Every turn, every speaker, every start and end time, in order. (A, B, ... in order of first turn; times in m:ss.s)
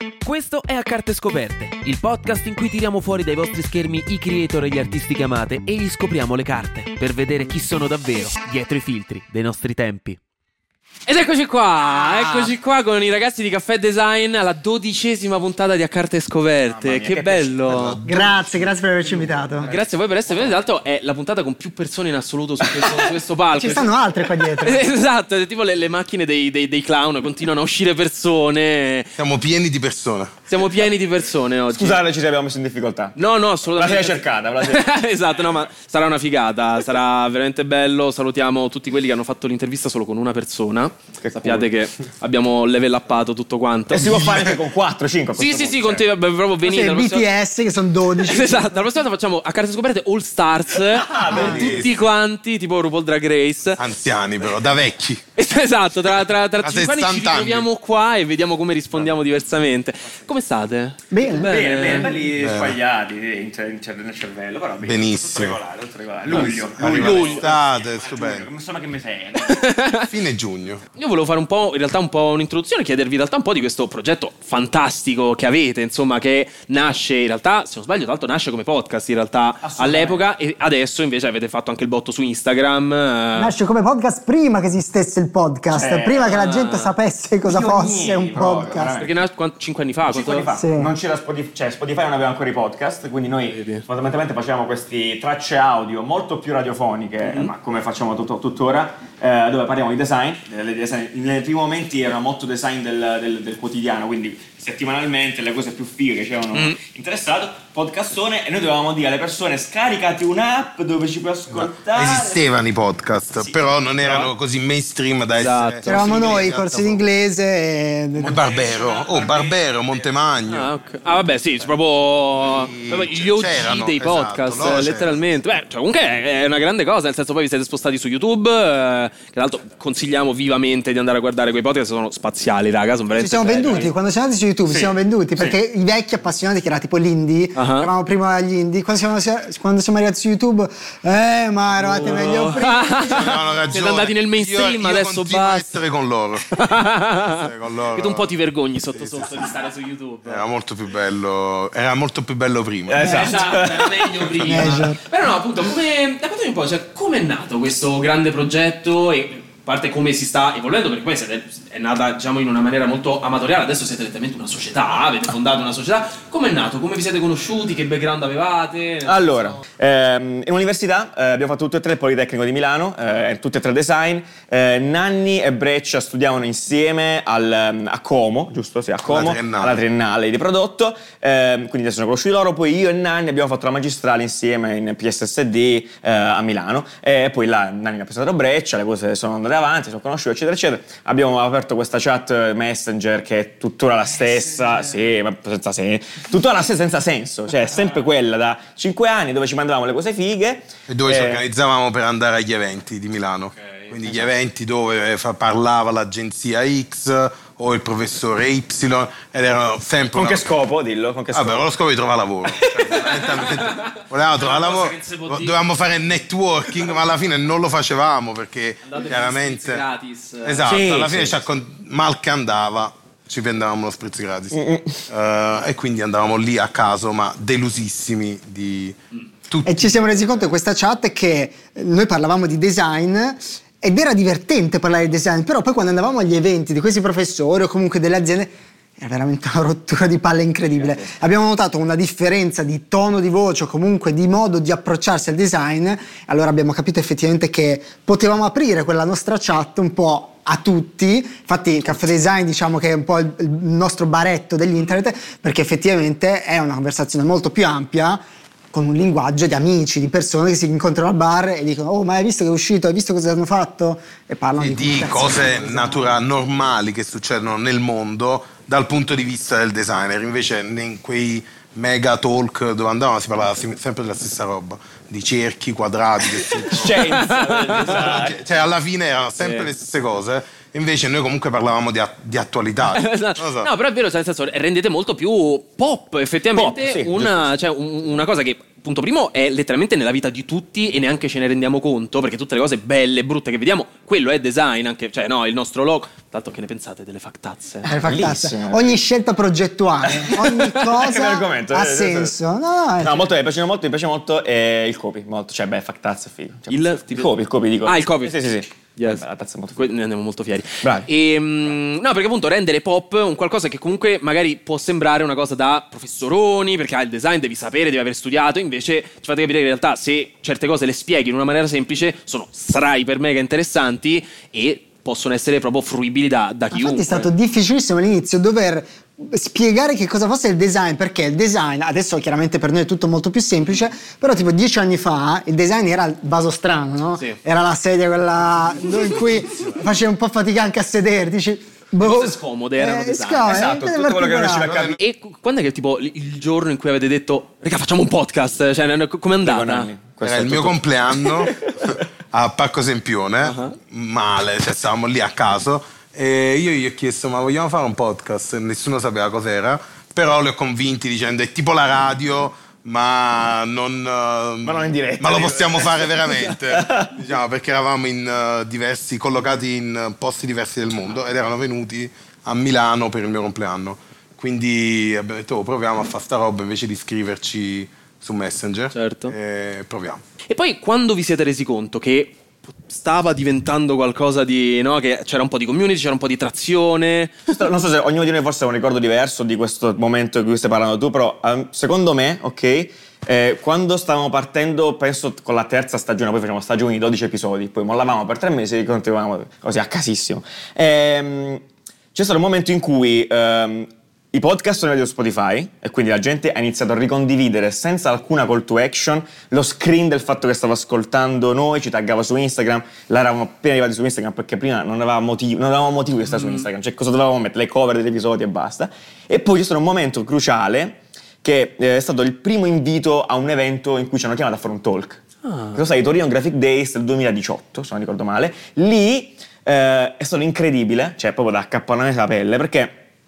0:00.2-0:10.2 A
0:11.1-0:18.0 B
0:16.7-0:17.9 C
0:17.7-0:18.7 D
0:18.1-0:19.7 E
0:19.6-0:20.6 C
0:19.6-0:23.9 B
0:23.5-0:24.9 E
0:24.6-0:29.2 B
0:29.2-0:30.3 D
0:30.5-0:32.0 B
0:31.7-0:33.2 C
0:33.2-0:44.4 B
0:33.8-0:34.8 C
0:41.2-0:41.7 C
0:43.9-0:46.0 C
0:44.1-0:44.6 D
0:45.4-0:47.3 B
0:46.6-0:48.7 E
0:48.2-0:53.8 B
0:50.8-0:51.9 C
0:51.3-0:52.0 D
0:53.8-0:55.2 D
0:55.4-1:02.2 B
0:56.6-0:57.7 D
1:01.1-1:02.0 E
1:01.4-1:09.7 C
1:02.4-1:02.8 D
1:04.8-1:05.6 D
1:06.3-1:08.5 D
1:06.3-1:07.5 B
1:09.4-1:10.1 B
1:10.1-1:10.8 D
1:11.0-1:23.5 B
1:19.6-1:20.2 C
1:23.3-1:28.9 E
1:25.7-1:26.5 C
1:26.3-1:26.9 B
1:27.5-1:29.2 C
1:29.0-1:30.5 B
1:30.1-1:52.5 C
1:30.5-1:30.9 E
1:33.5-1:33.8 B
1:37.2-1:37.5 B
1:51.5-1:57.1 D
1:55.4-1:56.4 B
1:55.8-1:58.4 E
1:58.2-2:00.7 D
1:58.3-1:59.6 C
2:00.5-2:13.9 B
2:02.5-2:05.1 D
2:13.1-2:23.3 E
2:14.7-2:15.6 C
2:17.6-2:17.9 B
2:21.8-2:25.6 B
2:23.0-2:26.6 D
2:26.5-2:30.4 B
2:27.3-2:28.3 D
2:28.9-2:29.5 D
2:30.2-2:33.3 D
2:32.9-2:34.8 C
2:33.0-2:33.4 E
2:33.0-2:49.6 B
2:34.4-2:35.0 E
2:49.1-3:21.4 C
2:59.0-2:59.8 D
3:20.9-3:30.5 D
3:30.2-3:31.7 C
3:31.3-3:39.8 D
3:32.6-3:35.6 B
3:38.9-3:40.7 B
3:40.4-3:49.0 D
3:40.6-3:41.4 C
3:44.5-3:45.0 C
3:49.5-3:50.0 D
3:49.6-4:18.2 E
4:00.8-4:01.1 C
4:18.7-4:26.1 E
4:24.6-4:37.0 D
4:36.7-4:38.4 C
4:36.8-4:38.2 B
4:37.8-4:43.7 D
4:39.4-4:39.7 B
4:42.9-4:57.8 B
4:46.6-4:47.5 C
4:57.8-5:03.3 E
4:57.8-4:59.0 C
5:00.1-5:02.4 C
5:03.0-5:09.9 C
5:06.7-5:07.3 B
5:07.8-5:08.4 B
5:09.0-5:09.2 B
5:09.8-5:27.3 B
5:10.8-5:11.1 C
5:26.7-5:44.7 E
5:42.0-5:43.7 B
5:43.4-5:45.0 C
5:44.6-5:45.0 D
5:45.0-5:49.9 B
5:49.4-5:52.0 C
5:50.2-6:20.2 D
5:53.4-5:53.8 B
6:04.6-6:07.2 C
6:18.9-6:19.4 B
6:20.5-6:27.4 B
6:27.5-6:41.6 C
6:42.2-7:05.2 C
6:56.3-6:56.7 B
7:05.4-7:05.8 B
7:05.7-7:13.0 C